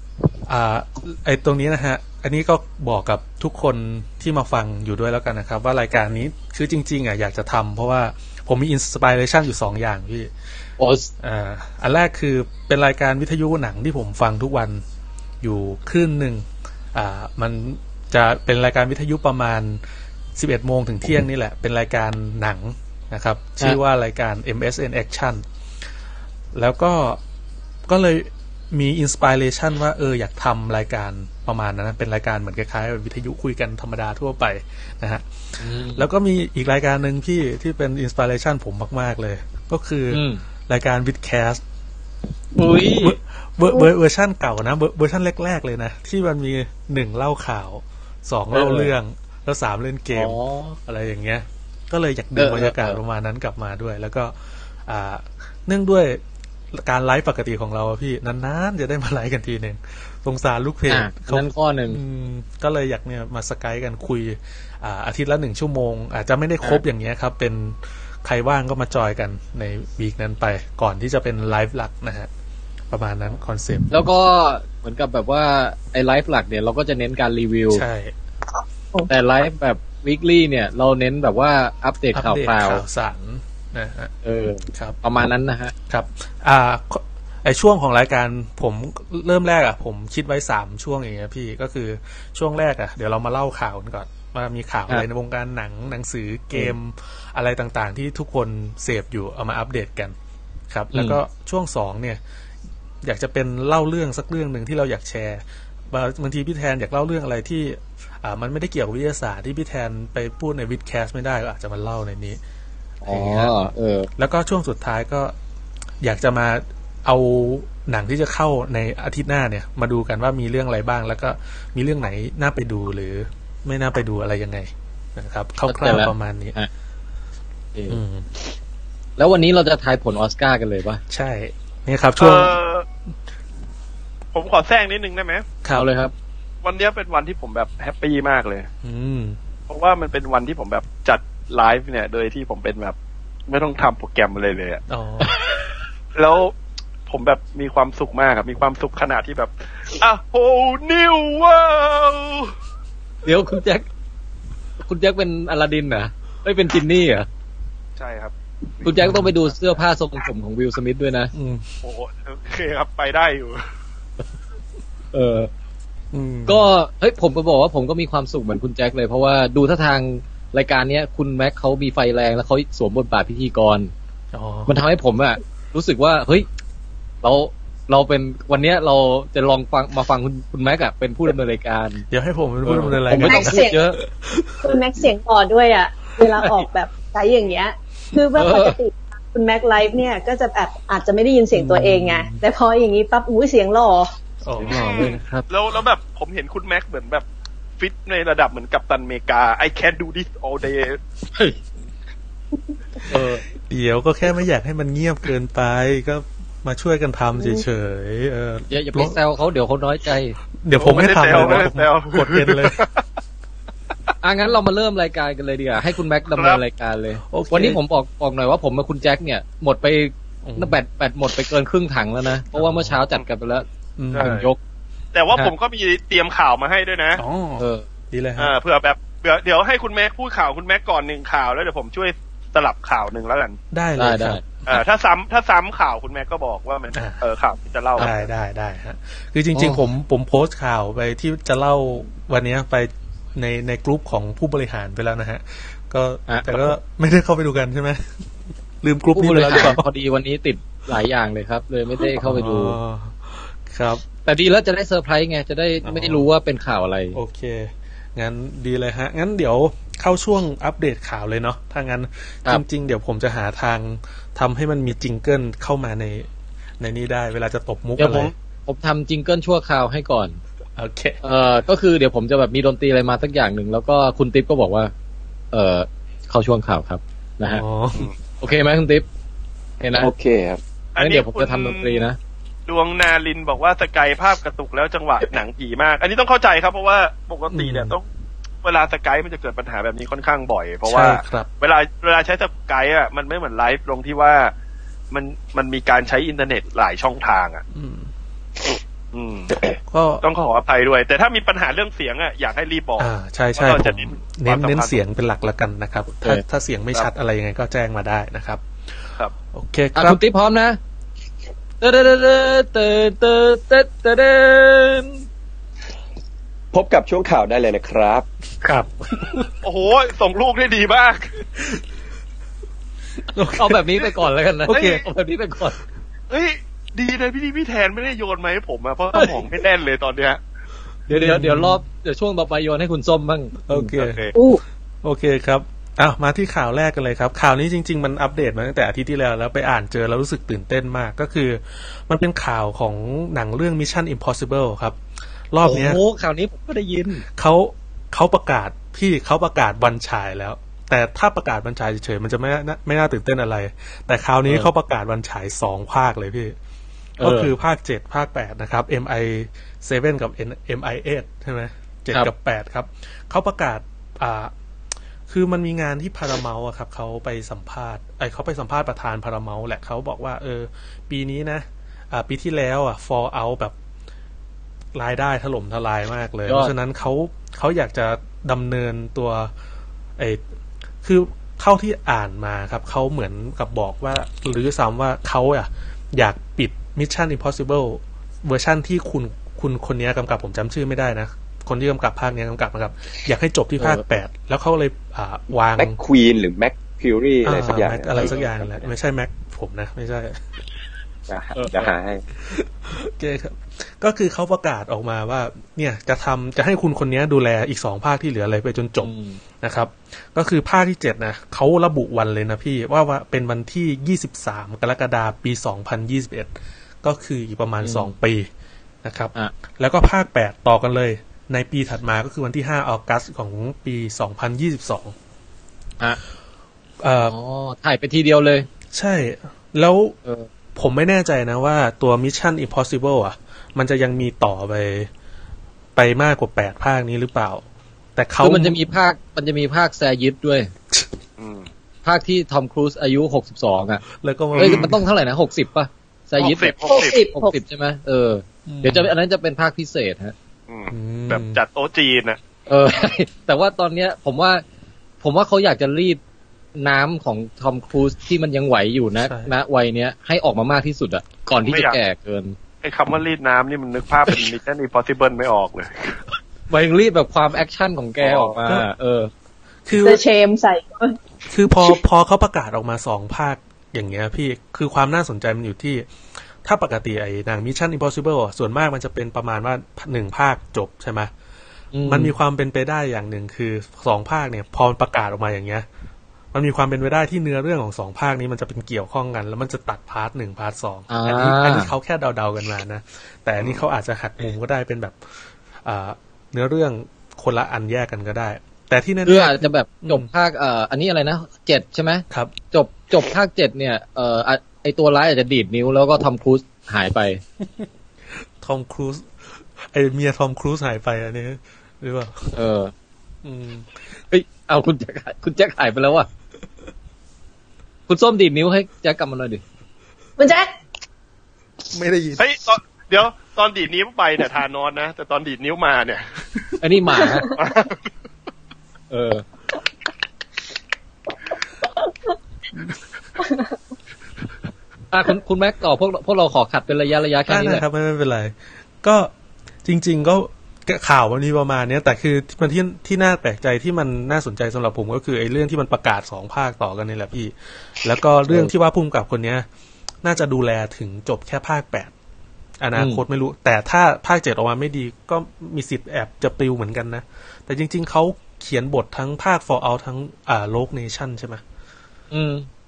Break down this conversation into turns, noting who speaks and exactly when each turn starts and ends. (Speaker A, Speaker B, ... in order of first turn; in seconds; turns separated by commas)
Speaker A: 0.5-10.3, Speaker B: 10.8-11.1, Speaker A: 11.2-14.8, Speaker A: 15.4-19.8, Speaker A: 20.4-25.4, Speaker A: 26.5-27.2, Speaker A: 27.9-41.6, Speaker B: 35.6-36.0, Speaker B: 40.1-40.4, Speaker B: 42.5-43.2, Speaker A: 42.8-56.2, Speaker B: 48.5-48.9, Speaker B: 50.1-50.8, Speaker B: 52.4-53.0, Speaker A: 56.7-72.3, Speaker B: 60.9-62.0, Speaker A: 72.9-73.9, Speaker B: 73.9-77.8, Speaker A: 77.7-78.1, Speaker B: 79.1-82.8, Speaker A: 82.1-84.1, Speaker B: 84.2-85.7, Speaker A: 84.7-85.0, Speaker A: 85.9-100.1, Speaker A: 100.7-102.2, Speaker B: 100.9-101.2, Speaker A: 103.0-112.4, Speaker A: 113.0-113.5, Speaker B: 113.0-114.1, Speaker A: 114.2-115.3, Speaker A: 116.0-126.5, Speaker B: 125.7-126.7, Speaker B: 127.7-128.0, Speaker A: 127.9-128.3, Speaker B: 129.2-131.0, Speaker A: 131.1-132.6, Speaker C: 132.2-132.8, Speaker C: 134.3-135.4, Speaker B: 135.8-136.1, Speaker C: 136.6-138.7, Speaker A: 138.8-139.4, Speaker C: 139.7-142.9, Speaker C: 143.5-144.8, Speaker A: 144.9-145.3, Speaker C: 146.1-146.5, Speaker C: 147.1-152.5, Speaker B: 153.2-153.9, Speaker B: 154.8-157.3, Speaker C: 158.0-159.6, Speaker B: 158.8-161.3, Speaker A: 158.9-159.3, Speaker A: 161.3-161.7, Speaker C: 161.8-163.7, Speaker B: 165.1-165.5, Speaker A: 166.1-166.7, Speaker B: 166.5-173.9, Speaker A: 174.3-174.8, Speaker B: 174.7-176.5, Speaker B: 177.2-182.1, Speaker A: 182.1-184.8, Speaker B: 182.6-184.0, Speaker D: 183.1-183.8, Speaker D: 184.6-194.1, Speaker B: 188.3-188.8, Speaker A: 191.5-192.4, Speaker A: 194.4-195.2, Speaker B: 194.6-195.5, Speaker C: 194.7-197.2, Speaker C: 197.8-201.0, Speaker B: 201.3-201.6, Speaker B: 203.1-203.4, Speaker A: 203.7-209.2, Speaker B: 208.7-211.7, Speaker A: 210.6-212.8, Speaker C: 210.8-213.0, Speaker B: 214.2-224.6, Speaker C: 216.3-216.6, Speaker A: 217.3-217.8, Speaker A: 220.4-220.8, Speaker A: 222.5-223.0, Speaker A: 224.0-224.3, Speaker C: 224.2-224.5, Speaker C: 225.1-227.2, Speaker A: 227.2-228.5, Speaker B: 227.6-227.8, Speaker C: 228.4-233.6, Speaker A: 233.7-234.8, Speaker B: 234.0-234.4, Speaker C: 234.7-238.1, Speaker A: 236.9-237.2, Speaker A: 238.0-248.2, Speaker B: 239.5-239.8, Speaker B: 246.3-246.7, Speaker A: 248.8-249.8, Speaker B: 249.1-252.8, Speaker A: 252.0-254.0, Speaker B: 254.2-257.2, Speaker A: 255.8-256.3, Speaker A: 257.1-266.3, Speaker A: 266.8-268.3, Speaker B: 268.0-270.4, Speaker A: 270.8-271.2, Speaker B: 271.2-274.9, Speaker B: 275.5-277.6, Speaker A: 277.4-278.1, Speaker B: 278.4-279.1, Speaker B: 279.8-280.1, Speaker E: 280.0-280.6, Speaker C: 280.9-282.1, Speaker B: 281.0-282.2, Speaker C: 282.7-288.0, Speaker A: 287.5-287.9, Speaker C: 288.6-294.5, Speaker A: 290.8-291.5, Speaker C: 295.1-297.6, Speaker A: 297.7-298.1, Speaker C: 299.1-299.6, Speaker A: 299.9-300.2, Speaker C: 300.2-305.0, Speaker A: 303.0-308.6, Speaker A: 309.5-310.2, Speaker B: 309.9-310.8, Speaker B: 311.8-315.2, Speaker E: 316.7-318.2, Speaker B: 318.6-319.1, Speaker C: 319.6-321.3, Speaker A: 323.3-323.8, Speaker B: 323.5-325.8, Speaker A: 324.7-325.0, Speaker C: 326.3-330.4, Speaker B: 331.1-333.9, Speaker A: 331.1-331.8, Speaker A: 333.7-334.2, Speaker C: 333.9-334.3, Speaker D: 334.3-334.6, Speaker A: 335.0-345.0, Speaker A: 345.5-346.0, Speaker B: 345.6-347.2, Speaker A: 347.3-356.6, Speaker A: 357.2-364.5, Speaker B: 357.2-357.5, Speaker A: 365.3-373.7, Speaker A: 374.9-379.5, Speaker B: 376.4-376.7, Speaker A: 381.0-396.0, Speaker B: 393.8-394.0, Speaker E: 395.8-398.9, Speaker A: 397.4-400.4, Speaker E: 401.3-402.2, Speaker B: 401.5-401.9, Speaker A: 402.5-416.5, Speaker B: 409.0-409.4, Speaker A: 417.0-418.5, Speaker B: 417.8-418.1, Speaker A: 419.0-425.1, Speaker A: 427.0-427.3, Speaker B: 427.2-428.7, Speaker A: 428.9-430.1, Speaker A: 430.7-435.1, Speaker A: 435.9-437.6, Speaker A: 438.1-438.8, Speaker B: 438.4-440.7, Speaker C: 441.4-441.7, Speaker B: 442.0-444.0, Speaker A: 444.2-445.0, Speaker C: 444.5-444.9, Speaker B: 444.6-450.3, Speaker C: 446.4-447.2, Speaker D: 446.9-447.6, Speaker A: 448.7-449.1, Speaker C: 450.7-452.4, Speaker A: 450.9-451.6, Speaker B: 452.7-454.6, Speaker B: 455.2-456.2, Speaker B: 456.8-462.6, Speaker A: 459.2-459.5, Speaker C: 461.6-462.0, Speaker C: 462.8-466.2, Speaker B: 466.7-469.3, Speaker C: 468.2-468.6, Speaker A: 469.9-470.2, Speaker D: 469.9-471.2, Speaker A: 471.5-476.1, Speaker A: 476.6-481.3, Speaker B: 481.9-482.3, Speaker A: 482.1-485.9, Speaker A: 486.5-500.3, Speaker B: 491.1-491.9, Speaker B: 499.2-507.4, Speaker A: 507.6-507.9, Speaker A: 508.6-512.5, Speaker B: 512.5-512.9, Speaker A: 513.4-513.9, Speaker B: 514.3-516.3, Speaker B: 518.1-519.6, Speaker D: 520.4-520.7, Speaker A: 521.9-522.4, Speaker C: 522.4-526.4, Speaker B: 526.8-527.5, Speaker D: 527.2-527.5, Speaker C: 527.4-528.1, Speaker B: 529.1-529.4, Speaker B: 535.1-537.8, Speaker A: 537.5-539.3, Speaker A: 539.8-549.6, Speaker A: 550.2-552.1, Speaker A: 552.8-561.6, Speaker B: 552.9-553.2, Speaker B: 562.3-562.7